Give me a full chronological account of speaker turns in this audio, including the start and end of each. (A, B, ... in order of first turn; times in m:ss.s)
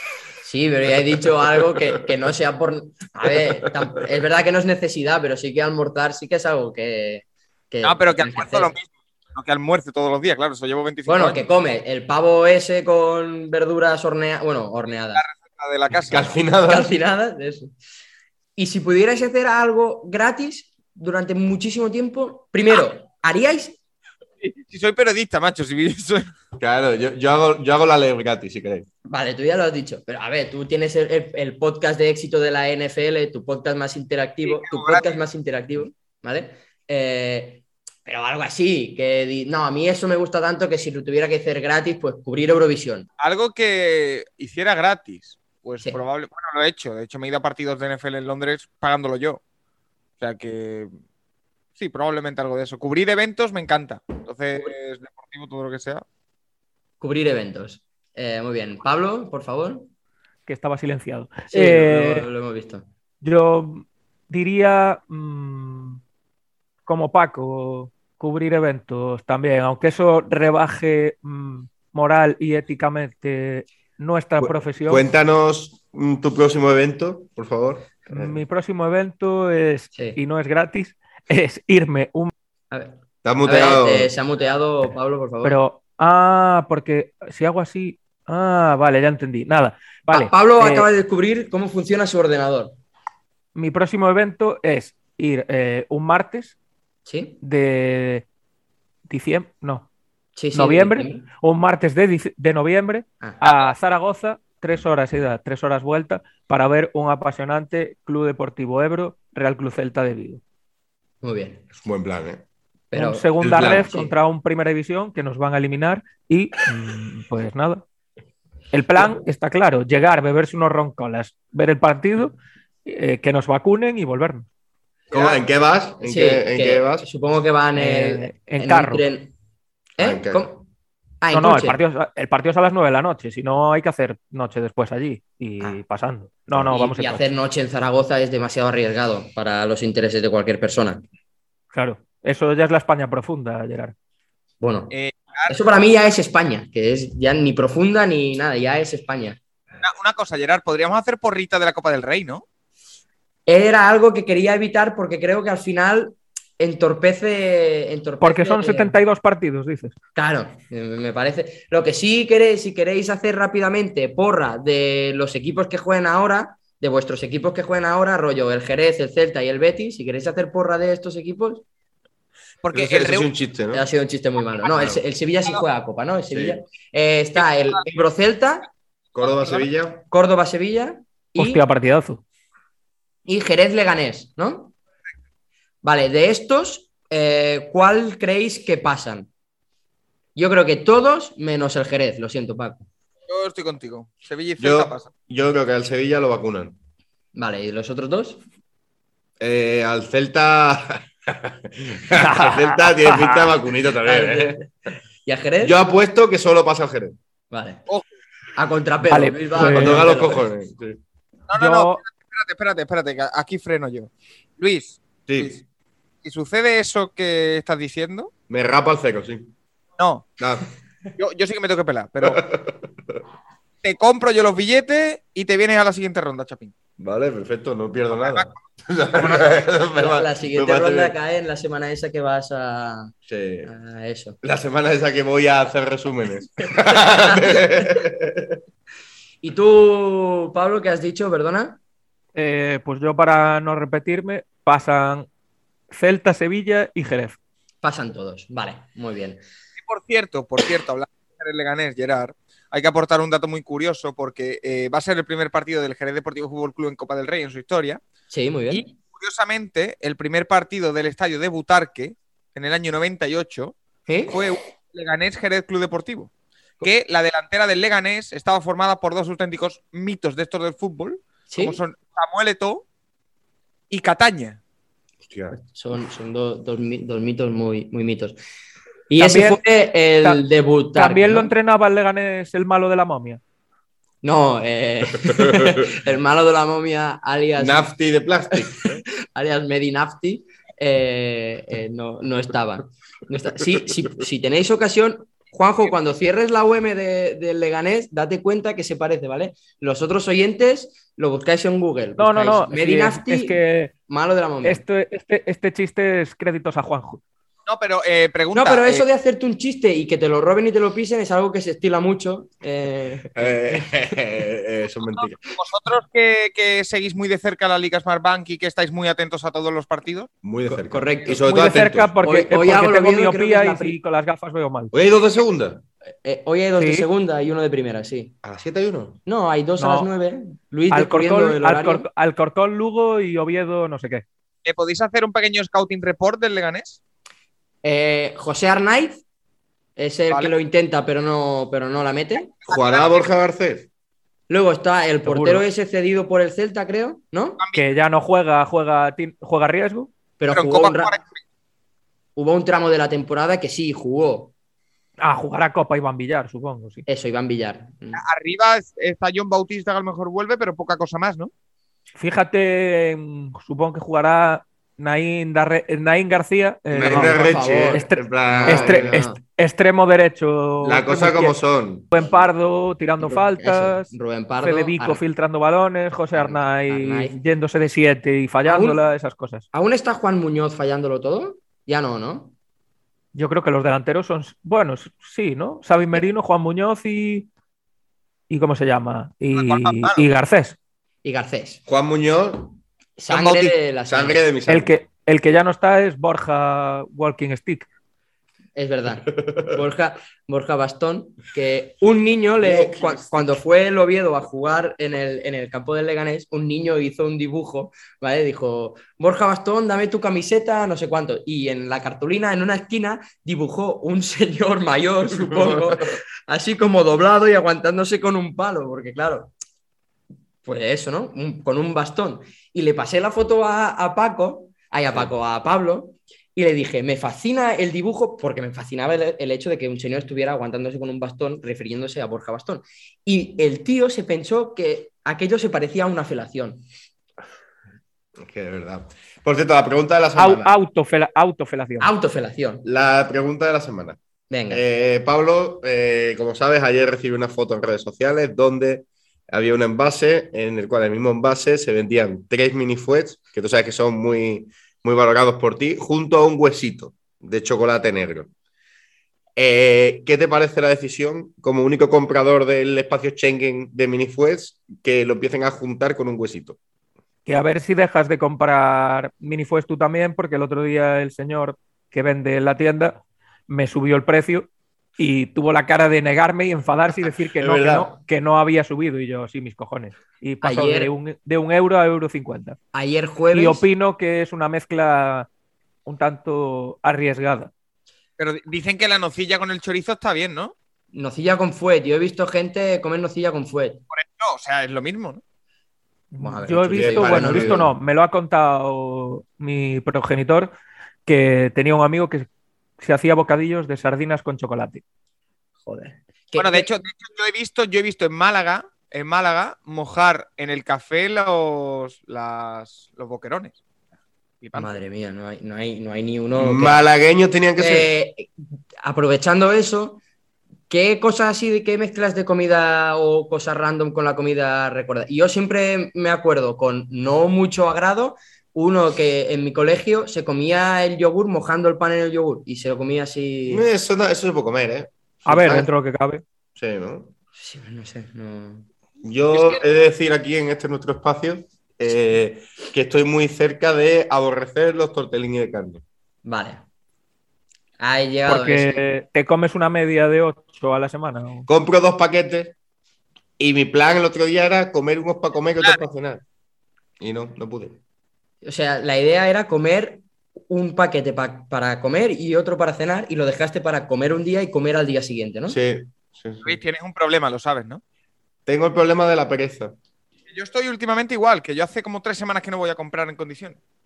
0:00.4-0:08.7 A
0:07.8-0:11.4 B
0:11.1-0:15.2 A
0:15.1-0:16.4 B
0:16.1-0:16.9 C
0:16.6-0:17.7 A
0:18.6-0:23.8 A
0:24.4-0:26.3 B
0:26.6-0:28.9 C
0:29.1-0:43.1 A
0:34.4-0:35.2 B
0:43.2-0:49.4 B
0:50.2-0:50.9 B
0:51.8-0:56.0 B
0:57.0-0:59.9 A
1:00.4-1:02.3 D
1:01.5-1:02.8 A
1:03.2-1:06.0 D
1:06.8-1:15.0 D
1:14.4-1:18.4 C
1:18.1-1:22.3 D
1:19.9-1:20.2 A
1:22.7-1:25.6 A
1:23.2-1:24.1 C
1:25.4-1:30.9 D
1:30.1-1:32.8 A
1:33.5-1:36.6 D
1:37.0-1:37.4 A
1:37.4-1:38.2 D
1:39.1-1:39.9 D
1:40.4-1:41.2 A
1:40.5-1:50.4 D
1:51.2-1:51.6 A
1:51.7-1:52.4 C
1:52.9-1:54.1 A
1:52.9-1:57.8 D
1:53.4-1:53.9 C
1:58.7-2:04.5 D
2:05.1-2:05.4 B
2:05.1-2:07.1 C
2:06.0-2:09.3 A
2:07.7-2:09.0 D
2:10.0-2:10.6 A
2:10.0-2:10.5 C
2:11.2-2:11.8 A
2:11.3-2:17.3 D
2:16.7-2:21.0 A
2:21.7-2:23.9 D
2:24.6-2:24.9 A
2:24.9-2:25.5 B
2:25.5-2:29.4 A
2:29.8-2:32.4 B
2:33.4-2:38.9 A
2:38.2-2:39.9 D
2:40.2-2:51.6 A
2:52.6-2:53.3 B
2:52.7-2:53.8 C
2:53.7-2:58.7 A
2:56.3-2:56.6 C
2:59.1-2:59.7 B
2:59.2-3:00.0 C
3:00.0-3:01.6 A
3:01.4-3:02.2 D
3:03.2-3:04.7 A
3:05.8-3:09.3 A
3:10.3-3:12.8 A
3:13.3-3:15.1 B
3:14.6-3:16.8 C
3:17.3-3:18.4 A
3:19.4-3:24.6 C
3:22.1-3:23.4 D
3:24.0-3:24.6 A
3:25.2-3:25.7 A
3:25.6-3:27.2 C
3:27.5-3:27.8 A
3:28.6-3:30.4 A
3:29.1-3:30.1 D
3:29.5-3:31.0 C
3:31.5-3:35.6 B
3:31.5-3:32.0 D
3:35.3-3:35.6 C
3:36.2-3:38.3 B
3:38.5-3:39.5 C
3:40.0-3:40.2 B
3:40.4-3:40.7 C
3:41.2-3:42.4 B
3:42.2-3:43.2 C
3:43.8-3:46.7 B
3:47.0-3:51.2 C
3:48.1-3:48.5 B
3:49.2-3:49.4 B
3:49.9-3:53.1 A
3:53.3-3:53.7 C
3:53.6-3:54.4 A
3:54.4-3:58.6 C
3:56.9-3:58.0 A
3:59.4-4:01.8 A
4:02.3-4:05.3 D
4:05.9-4:07.4 D
4:07.8-4:09.4 A
4:09.8-4:18.0 B
4:18.3-4:18.9 A
4:18.7-4:23.7 B
4:24.1-4:24.4 A
4:24.3-4:26.3 B
4:26.8-4:32.8 B
4:31.5-4:31.8 A
4:33.9-4:34.6 B
4:35.2-4:35.6 C
4:35.7-4:38.4 A
4:39.1-4:41.5 A
4:39.2-4:39.6 D
4:40.9-4:43.4 D
4:44.2-4:47.9 A
4:45.3-4:45.8 C
4:47.6-4:49.0 C
4:48.6-5:04.8 A
5:02.2-5:03.9 D
5:04.6-5:07.2 D
5:07.6-5:09.1 B
5:08.5-5:13.8 A
5:13.3-5:15.4 C
5:15.5-5:20.3 B
5:20.4-5:22.1 C
5:20.7-5:24.0 A
5:21.4-5:24.9 D
5:24.9-5:25.8 C
5:26.2-5:28.3 A
5:26.8-5:27.1 D
5:28.4-5:29.2 C
5:29.2-5:32.1 A
5:29.8-5:30.1 D
5:30.9-5:34.2 D
5:34.6-5:37.0 B
5:37.8-5:39.2 A
5:40.0-5:42.5 A
5:42.6-5:43.3 B
5:42.7-5:43.9 C
5:44.5-5:47.6 A
5:45.2-5:45.6 D
5:47.6-5:47.8 B
5:47.7-5:50.1 D
5:50.4-5:51.1 A
5:50.5-5:51.4 B
5:52.4-5:54.5 A
5:55.2-5:57.0 D
5:57.1-5:58.2 A
5:58.1-6:01.5 B
6:02.2-6:11.6 D
6:06.9-6:09.3 C
6:07.0-6:09.4 A
6:10.8-6:12.1 C
6:12.1-6:14.1 D
6:13.2-6:15.2 A
6:14.6-6:19.6 D
6:16.3-6:17.4 A
6:18.6-6:19.0 A
6:19.7-6:22.5 A
6:23.3-6:27.5 D
6:28.5-6:30.8 D
6:29.5-6:30.2 B
6:31.2-6:31.8 A
6:31.9-6:32.8 C
6:33.2-6:34.4 A
6:33.3-6:33.7 B
6:34.1-6:35.0 C
6:34.7-6:37.9 D
6:38.8-6:59.5 A
6:42.6-6:43.3 C
6:55.3-6:56.1 C
7:00.6-7:16.8 A
7:18.4-7:20.7 C
7:20.4-7:22.1 D
7:22.0-7:22.8 A
7:22.8-7:24.2 C
7:24.5-7:24.8 A
7:24.7-7:38.5 C
7:39.6-7:46.8 C
7:47.4-8:02.8 D
7:57.6-7:58.1 C
8:00.6-8:01.1 A
8:02.9-8:03.8 A
8:03.5-8:05.5 D
8:06.0-8:07.7 D
8:08.4-8:10.7 B
8:11.1-8:14.0 A
8:14.1-8:15.4 B
8:16.3-8:20.7 D
8:16.4-8:17.8 A
8:16.9-8:17.9 C
8:21.2-8:22.5 D
8:23.0-8:25.0 D
8:25.8-8:26.9 A
8:26.6-8:33.8 B
8:34.6-8:35.0 B
8:34.7-8:37.0 A
8:36.5-8:38.1 C
8:37.8-8:38.5 A
8:39.0-8:40.2 A
8:40.9-8:53.8 A
8:53.7-8:55.9 C
8:55.4-8:56.4 D
8:56.7-8:57.3 C
8:57.6-8:58.9 A
8:59.2-9:06.0 C
8:59.5-8:59.8 B
9:06.4-9:06.8 A
9:08.0-9:09.0 A
9:08.5-9:11.7 D
9:11.7-9:12.7 C
9:13.6-9:16.4 C
9:17.2-9:18.0 C
9:18.6-9:25.8 A
9:25.7-9:26.8 C
9:26.6-9:28.0 B
9:28.6-9:30.0 C
9:30.5-9:33.8 B